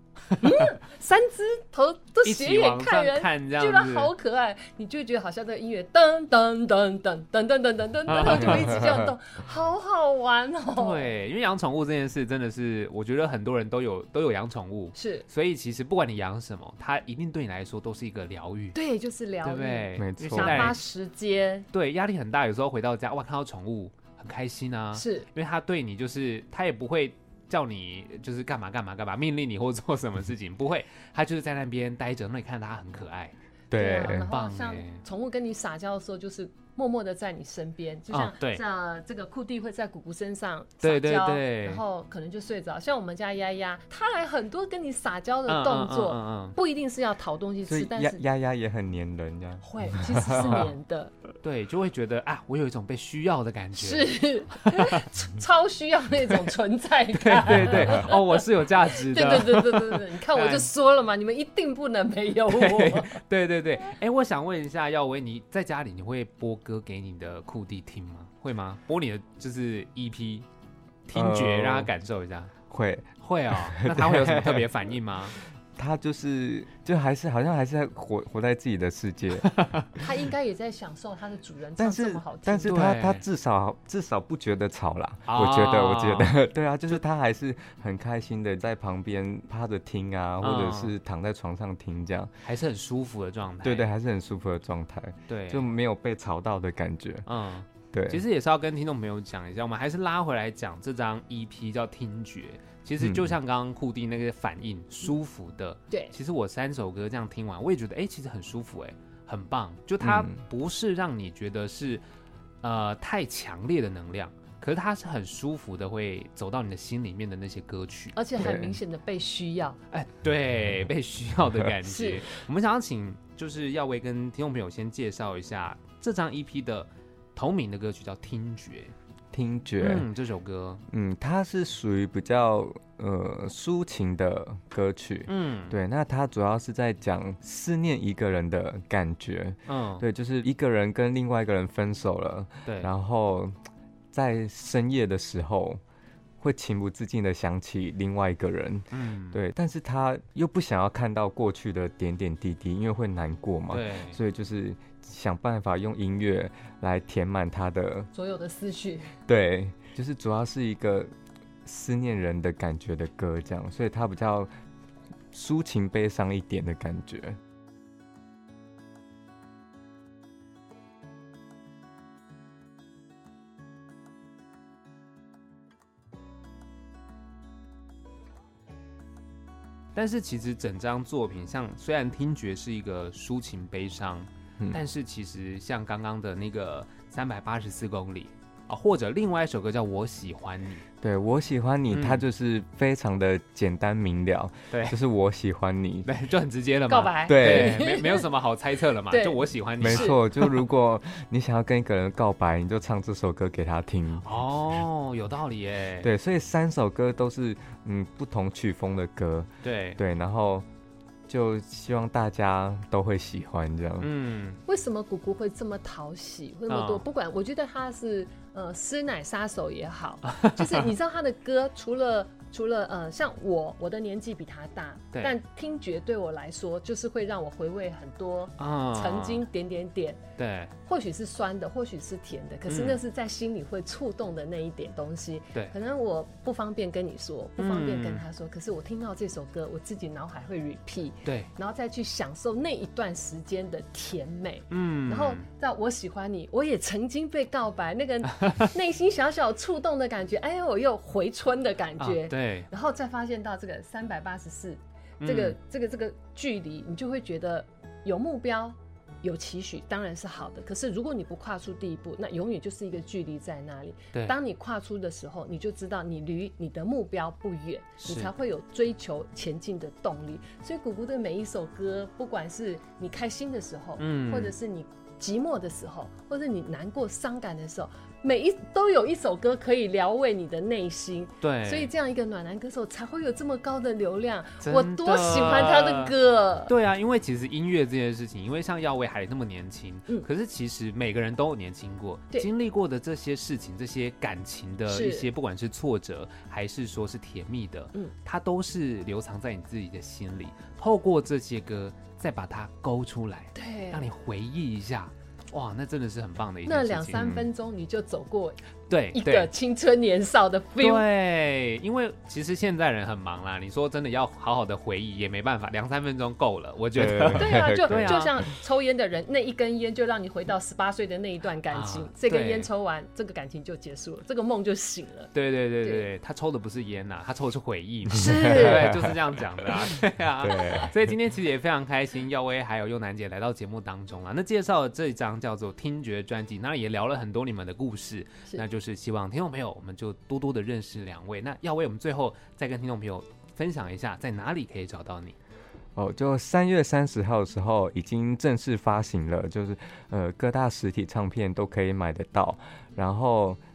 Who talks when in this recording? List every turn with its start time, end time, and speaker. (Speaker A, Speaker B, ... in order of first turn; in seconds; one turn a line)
Speaker A: 0.3-0.6
Speaker B: 0.4-11.1
Speaker A: 2.2-4.1
Speaker A: 8.1-8.8
Speaker A: 10.8-18.8
Speaker B: 14.9-15.2
Speaker B: 18.7-21.7
Speaker A: 19.4-20.8
Speaker C: 20.0-20.7
Speaker A: 21.7-33.3
Speaker B: 24.9-25.3
Speaker C: 33.7-34.3
Speaker B: 33.7-48.2
Speaker A: 34.3-35.0
Speaker A: 38.1-38.6
Speaker A: 40.8-41.8
Speaker A: 45.5-46.5
Speaker C: 47.7-50.7
Speaker B: 49.6-51.1
Speaker A: 51.4-55.0
Speaker B: 53.8-63.2
Speaker A: 57.2-60.7
Speaker C: 57.6-58.0
Speaker A: 62.5-70.5
Speaker A: 71.1-72.5
Speaker C: 71.1-71.9
Speaker C: 72.7-74.7
Speaker A: 73.2-75.4
Speaker C: 75.8-79.5
Speaker A: 79.4-79.9
Speaker B: 80.0-82.8
Speaker C: 81.8-92.3
Speaker A: 82.7-83.2
Speaker A: 85.3-86.3
Speaker A: 90.4-90.9
Speaker A: 92.4-93.9
Speaker C: 93.6-97.2
Speaker A: 95.3-95.6
Speaker A: 97.2-112.0
Speaker C: 97.9-98.2
Speaker C: 103.0-103.3
Speaker C: 110.0-110.4
Speaker A: 112.6-118.2
Speaker B: 118.1-119.8
Speaker C: 118.4-118.8
Speaker A: 119.9-128.9
Speaker B: 121.8-122.2
Speaker C: 129.3-130.1
Speaker A: 129.8-130.8
Speaker C: 130.9-143.6
Speaker A: 135.3-135.8
Speaker A: 139.7-140.0
Speaker C: 144.1-145.8
Speaker C: 146.4-158.1
Speaker A: 148.9-149.4
Speaker A: 153.7-154.2
Speaker B: 158.1-159.2
Speaker C: 159.3-161.1
Speaker C: 161.6-164.5
Speaker C: 165.3-167.4
Speaker A: 179.9-190.8
Speaker C: 191.0-196.1
Speaker A: 191.9-192.2
Speaker A: 194.7-195.0
Speaker A: 196.0-200.5
Speaker B: 196.9-198.3
Speaker C: 197.3-197.8
Speaker B: 199.1-200.1
Speaker C: 199.8-204.3
Speaker A: 204.2-206.1
Speaker C: 206.0-210.7
Speaker A: 209.6-210.0
Speaker C: 211.3-214.1
Speaker A: 214.0-214.6
Speaker B: 214.7-230.2
Speaker A: 216.7-217.0
Speaker A: 220.2-220.9
Speaker A: 228.6-229.4
Speaker A: 230.4-230.7
Speaker B: 230.8-286.7
Speaker A: 232.7-233.0
Speaker A: 237.6-238.2
Speaker A: 244.7-245.4
Speaker A: 248.3-248.7
Speaker A: 252.0-252.7
Speaker A: 255.2-255.6
Speaker A: 268.0-268.3
Speaker A: 274.0-274.5
Speaker A: 281.4-281.9
Speaker A: 284.6-286.1
Speaker A: 286.7-307.4
Speaker B: 294.9-295.3
Speaker B: 303.5-304.1
Speaker B: 306.6-308.6
Speaker C: 307.1-307.4
Speaker A: 308.9-309.5
Speaker B: 309.1-311.1
Speaker A: 310.8-318.3
Speaker C: 316.9-318.2
Speaker B: 317.4-326.1
Speaker A: 321.7-322.7
Speaker A: 325.3-345.4
Speaker C: 328.1-329.1
Speaker B: 328.1-328.9
Speaker C: 330.4-330.9
Speaker B: 330.5-330.8
Speaker C: 345.9-353.6